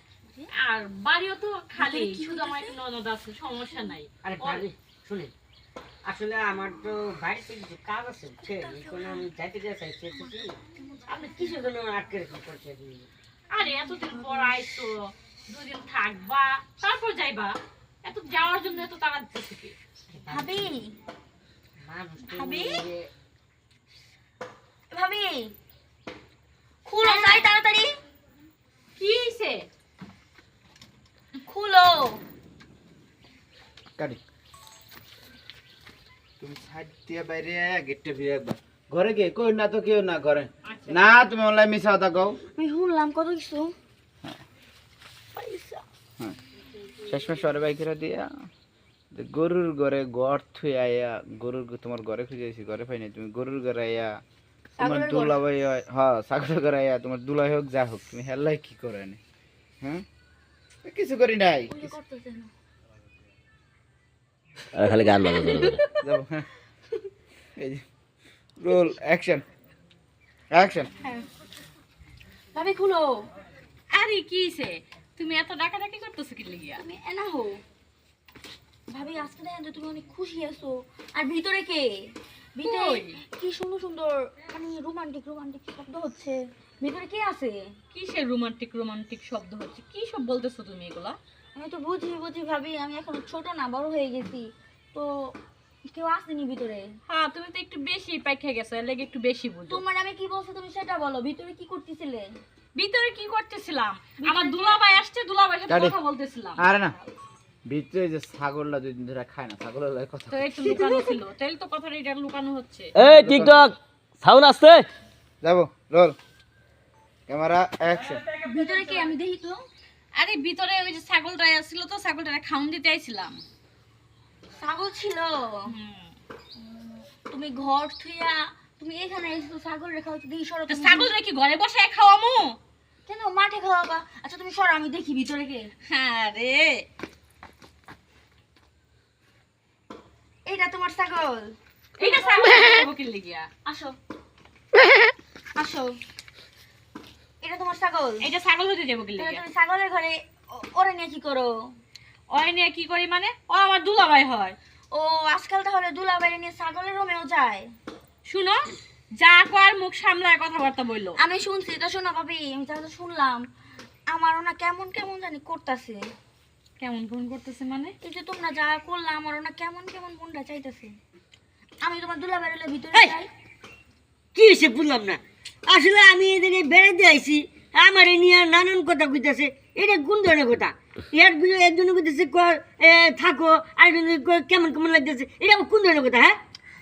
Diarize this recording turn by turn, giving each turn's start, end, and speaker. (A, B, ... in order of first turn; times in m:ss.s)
0:00.5-0:04.6 A
0:01.8-0:02.8 B
0:04.2-0:05.3 C
0:06.0-0:10.5 C
0:08.4-0:09.3 B
0:10.7-0:11.5 B
0:11.1-0:13.1 C
0:13.5-0:19.7 A
0:20.1-0:20.7 C
0:20.3-0:20.9 B
0:21.8-0:23.1 C
0:22.2-0:22.8 B
0:24.9-0:25.5 B
0:26.8-0:27.9 B
0:27.0-0:27.5 A
0:29.0-0:29.7 A
0:31.5-0:32.2 B
0:36.4-0:42.4 D
0:40.6-0:41.0 A
0:42.5-0:43.7 B
0:45.3-0:45.8 B
0:47.1-0:48.3 D
0:49.1-0:54.2 D
0:54.8-0:55.4 B
0:54.8-0:59.2 D
1:00.8-1:01.9 D
1:01.7-1:02.5 B
1:04.7-1:05.8 E
1:05.2-1:05.8 A
1:06.0-1:06.5 D
1:07.6-1:07.8 D
1:08.6-1:09.4 D
1:10.5-1:10.9 D
1:12.5-1:13.3 B
1:13.9-1:16.8 A
1:16.8-1:17.6 B
1:18.9-1:21.9 B
1:22.6-1:27.6 B
1:22.6-1:23.2 A
1:27.9-1:31.2 A
1:31.6-1:35.3 B
1:35.9-1:36.9 B
1:37.1-1:39.8 A
1:39.7-1:42.3 B
1:42.8-1:46.6 A
1:44.2-1:44.8 B
1:45.7-1:46.0 D
1:46.6-1:47.0 D
1:47.7-1:50.7 D
1:50.3-1:52.9 A
1:50.6-1:51.1 B
1:52.9-1:54.8 E
1:53.0-1:53.7 D
1:55.4-1:56.2 D
1:57.3-1:58.2 D
1:58.4-1:59.6 B
2:00.2-2:03.4 A
2:04.6-2:05.7 B
2:05.7-2:06.2 A
2:06.6-2:11.1 B
2:10.7-2:12.6 A
2:13.1-2:15.7 B
2:15.9-2:16.8 A
2:20.5-2:22.8 B
2:22.0-2:23.5 A
2:23.6-2:24.0 B
2:25.6-2:26.0 B
2:27.4-2:28.3 B
2:28.2-2:29.4 A
2:29.2-2:31.6 B
2:32.3-2:34.6 A
2:34.9-2:37.7 B
2:38.3-2:41.2 A
2:41.2-2:43.4 B
2:44.1-2:46.0 B
2:46.8-2:48.0 A
2:48.0-2:50.9 B
2:51.8-2:53.3 B
2:52.9-2:53.2 C
2:54.3-3:06.4 C